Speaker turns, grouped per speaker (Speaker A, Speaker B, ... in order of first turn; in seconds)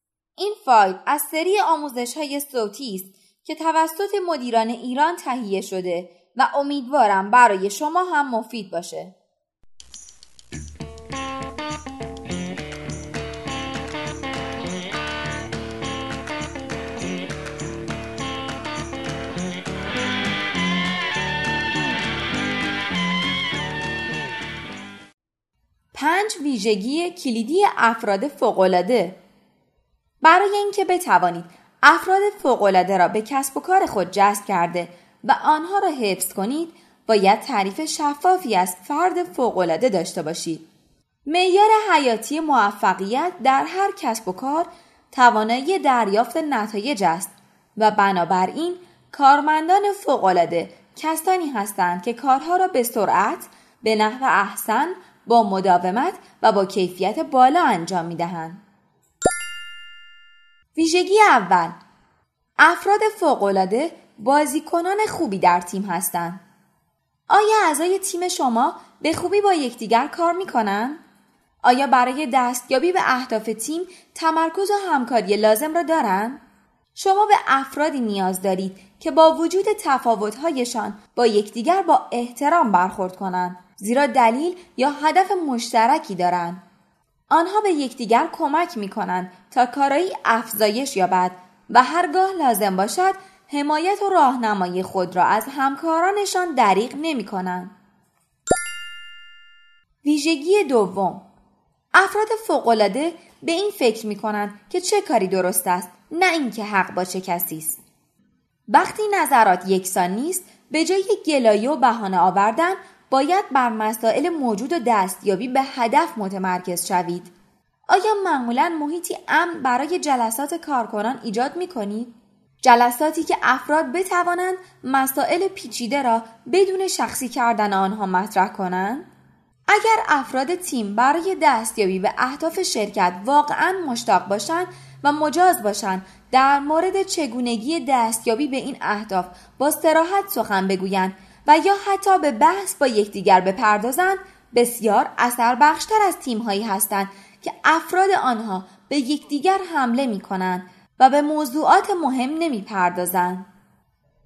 Speaker A: 0.4-9.1, 25.9-29.2, 30.2-40.6, 41.3-58.6, 60.8-61.7, 62.6-66.4, 67.3-71.0, 71.6-76.4, 76.9-86.6, 87.3-97.7, 100.0-101.2, 101.9-107.8, 108.7-117.3, 117.9-129.1, 129.7-153.5